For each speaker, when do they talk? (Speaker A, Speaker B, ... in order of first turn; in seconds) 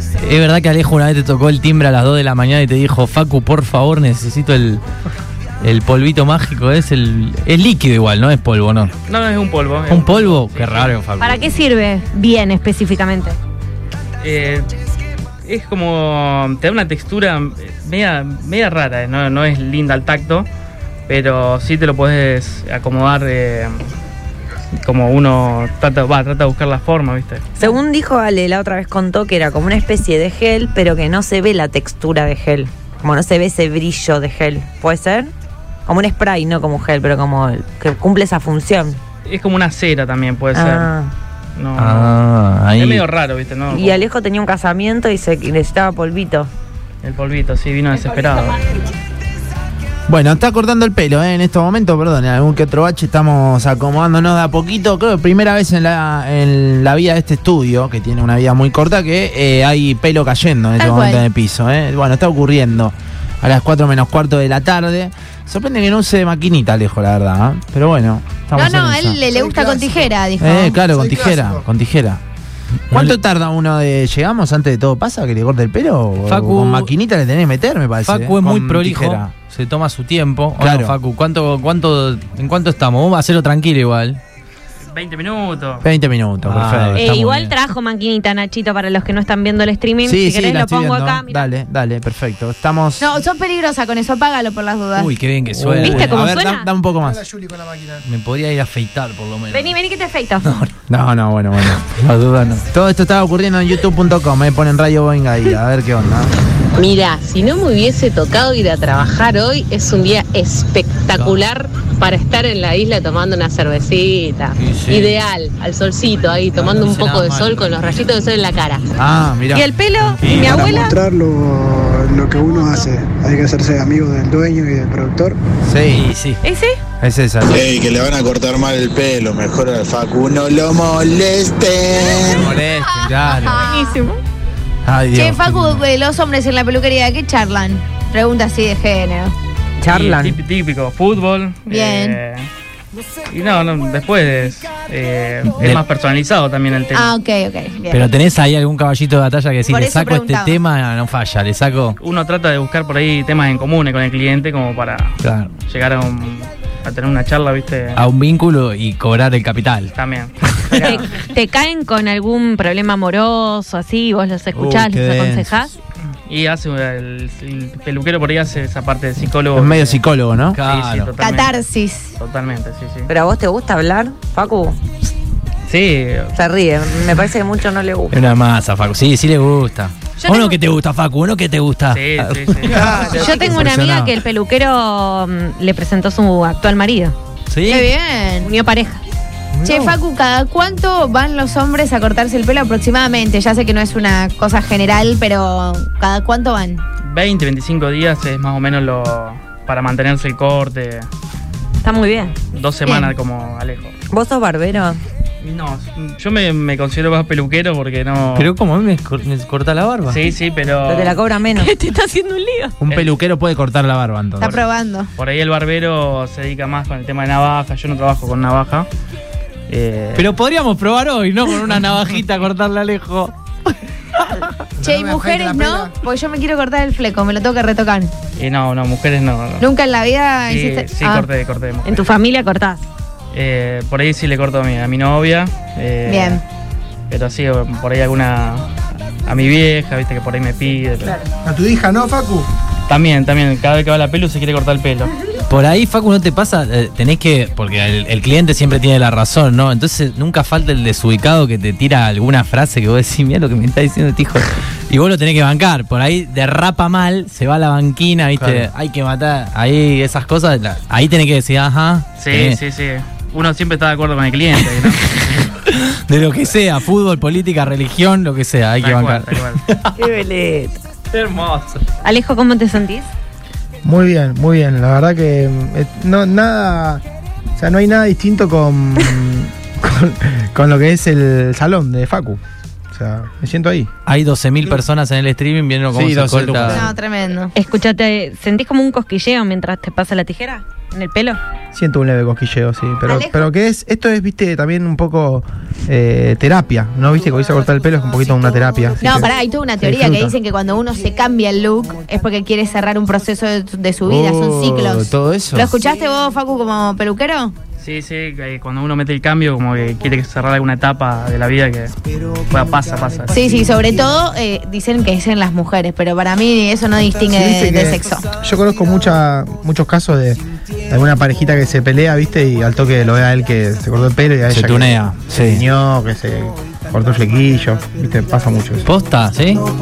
Speaker A: 0.2-4.8, 5.6-8.9, 9.9-11.4, 41.8-43.0, 72.9-73.2, 76.3-76.9, 78.0-84.2, 86.5-87.5, 95.0-96.2, 98.0-99.7, 100.4-100.7, 101.9-102.6, 111.2-111.4, 114.6-115.2, 116.6-117.8, 120.2-120.6, 125.9-126.4, 145.6-145.8, 147.9-152.0, 155.2-155.5, 158.0-159.9, 170.5-171.1, 178.1-182.9, 187.5-187.9, 189.6-190.0, 208.3-210.2, 220.2-223.3, 224.2-224.5, 245.5-262.6, 264.9-270.0, 271.1-271.8, 284.1-286.9, 328.9-329.7
Speaker B: 9.1-10.9, 14.2-14.7, 15.4-20.5, 21.1-23.8, 24.8-27.5, 39.2-40.9, 41.6-42.2, 42.8-44.0, 47.0-48.6, 84.9-85.8, 139.9-142.5, 143.3-147.1, 152.0-158.0, 159.9-161.0, 166.3-170.0, 170.6-171.6, 172.2-173.1, 175.7-176.3, 181.9-183.0, 197.0-201.1, 202.5-203.9, 205.4-208.5, 210.1-211.2, 215.2-218.9, 219.7-220.3, 228.4-229.7, 230.5-232.1, 233.3-236.4, 237.1-238.7, 239.3-241.2, 242.9-245.1, 262.2-265.5, 268.8-269.6, 307.8-311.9, 312.5-313.5
Speaker C: 11.2-13.4, 87.0-91.5, 95.8-96.7, 99.5-100.6, 119.5-121.0, 126.4-126.8, 133.6-134.2, 160.7-165.7, 180.2-180.6, 183.0-187.2, 188.4-189.0, 201.8-202.3, 211.6-212.8, 231.8-232.8, 272.0-273.1, 287.5-291.4
Speaker D: 27.6-35.3, 35.9-39.0, 40.5-41.1, 43.7-46.5, 139.8-140.4, 173.1-174.8, 176.3-178.2, 183.2-183.5, 204.1-205.0, 210.9-211.7, 270.0-270.8
Speaker E: 50.1-69.2, 70.4-72.2, 72.9-79.3, 80.6-81.0, 85.8-87.1, 90.0-93.1, 95.5-97.2, 100.9-101.9, 102.7-106.3, 119.0-119.7, 125.6-126.1, 127.0-127.6, 132.2-133.6, 134.8-135.8, 164.5-165.7, 169.5-170.6, 183.4-184.2, 212.8-214.6, 258.4-258.7, 285.9-286.9, 304.0-305.8, 324.5-325.6
Speaker F: 60.8-61.2, 68.5-70.8, 93.0-95.2, 133.5-134.0, 135.1-139.3, 141.7-142.2, 146.9-148.1, 149.7-150.6, 171.2-172.1, 187.6-188.5, 189.6-196.8, 214.4-215.1, 224.8-228.1, 229.6-231.3, 236.1-236.4, 286.7-287.5, 293.1-293.5, 299.0-307.6, 313.3-318.3
Speaker G: 69.3-70.2, 70.8-71.7, 97.0-98.0, 224.8-225.9, 241.4-242.5, 273.8-277.0, 277.6-282.4, 282.9-283.9, 291.7-299.3, 299.8-300.3, 317.3-328.9
Speaker H: 106.8-118.9
Speaker I: 120.3-125.4
Speaker J: 127.5-132.5